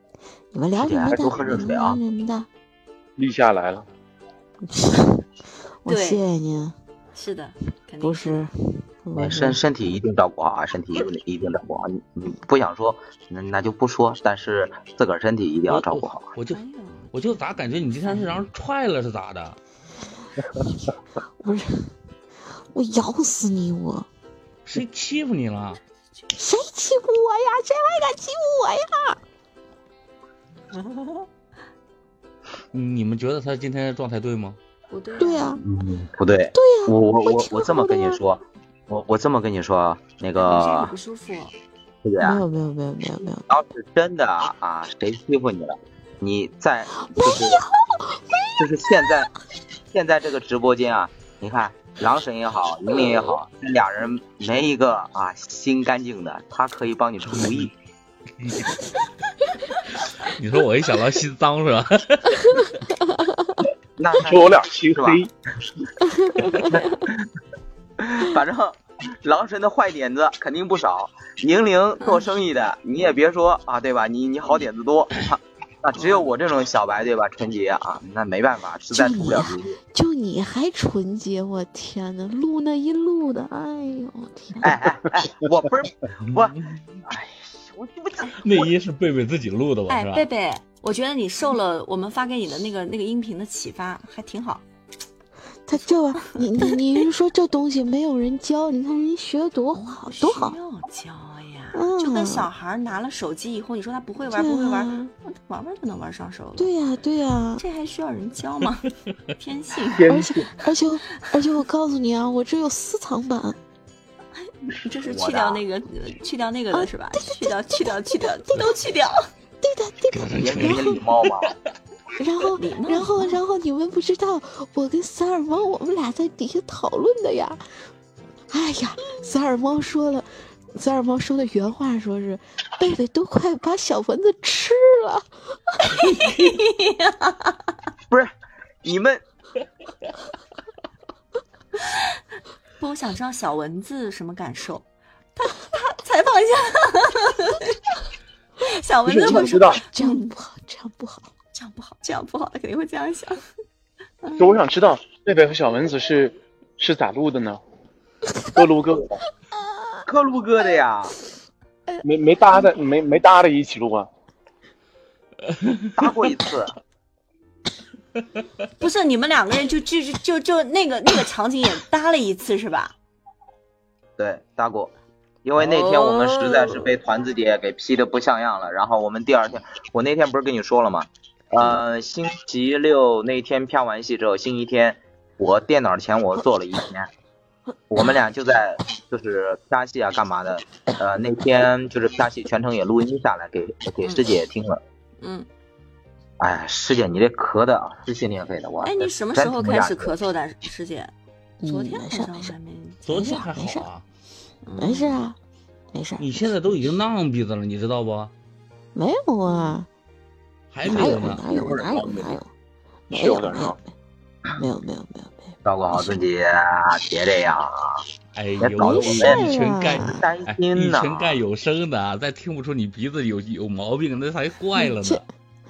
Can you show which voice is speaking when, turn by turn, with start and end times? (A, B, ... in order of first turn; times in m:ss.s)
0:00.5-0:02.5 A
0:00.8-0:02.0 B
0:03.2-0:03.9 C
0:04.6-0:05.2 A
0:05.8-0:06.7 A
0:05.9-0:06.2 D
0:07.1-0:08.4 D
0:08.0-0:09.6 A
0:09.2-0:16.2 B
0:15.7-0:16.6 E
0:16.5-0:17.1 D
0:17.1-0:19.6 E
0:21.4-0:21.9 A
0:22.7-0:24.1 A
0:24.6-0:25.8 E
0:26.3-0:29.2 A
0:32.7-0:34.6 E
0:34.9-0:35.6 D
0:35.2-0:35.6 A
0:35.6-0:40.9 B
0:36.5-0:38.2 A
0:40.3-0:41.6 D
0:42.0-0:42.4 B
0:42.2-0:43.4 A
0:43.5-0:47.6 B
0:47.0-0:49.2 A
0:48.6-0:49.3 B
0:49.9-0:57.7 B
0:57.3-0:57.7 E
0:58.4-0:58.8 E
1:00.2-1:02.7 E
1:03.1-1:03.5 A
1:04.0-1:05.2 B
1:04.2-1:05.3 C
1:06.1-1:06.7 A
1:08.0-1:19.8 B
1:15.9-1:16.3 D
1:18.9-1:24.8 A
1:24.6-1:28.7 B
1:26.3-1:26.6 E
1:28.4-1:30.3 E
1:29.9-1:34.6 D
1:35.6-1:40.6 A
1:36.2-1:37.0 D
1:39.7-1:46.7 D
1:41.7-1:42.5 A
1:44.3-1:45.1 A
1:46.6-1:47.6 A
1:47.6-1:50.7 D
1:49.9-1:50.5 C
1:50.0-1:53.6 A
1:54.4-1:59.3 D
1:55.0-1:55.6 B
1:56.7-1:58.7 A
1:59.6-2:01.0 A
2:00.1-2:01.5 E
2:00.4-2:01.5 B
2:02.2-2:07.6 A
2:02.6-2:03.4 D
2:08.5-2:15.9 A
2:15.9-2:17.7 D
2:18.8-2:19.2 B
2:21.8-2:22.2 D
2:22.8-2:28.0 D
2:28.6-2:30.2 D
2:29.0-2:29.8 C
2:29.2-2:31.3 A
2:31.5-2:33.4 D
2:34.2-2:34.5 D
2:34.3-2:37.6 C
2:38.3-2:38.6 A
2:38.5-2:39.2 C
2:39.6-2:40.0 A
2:40.0-2:41.2 B
2:42.0-2:44.1 C
2:45.4-2:46.3 E
2:46.0-2:46.8 B
2:48.8-2:52.9 D
2:54.2-2:54.9 B
2:55.4-3:07.1 B
2:55.6-2:56.9 D
3:07.9-3:14.8 B
3:14.0-3:14.3 D
3:15.2-3:15.5 D
3:16.4-3:20.1 B
3:18.8-3:21.1 D
3:21.6-3:22.5 A
3:21.6-3:23.3 D
3:23.0-3:24.0 E
3:23.1-3:23.9 A
3:24.6-3:25.2 D
3:24.8-3:25.4 A
3:25.9-3:26.3 A
3:26.2-3:28.3 E
3:28.9-3:29.9 A
3:29.4-3:29.8 D
3:30.7-3:31.7 E
3:30.8-3:32.5 A
3:31.3-3:32.4 C
3:33.1-3:33.8 C
3:33.1-3:33.8 A
3:34.6-3:35.5 A
3:35.6-3:38.0 B
3:38.3-3:45.2 E
3:38.6-3:39.5 B
3:38.8-3:40.2 A
3:40.0-3:41.4 B
3:44.8-3:45.3 A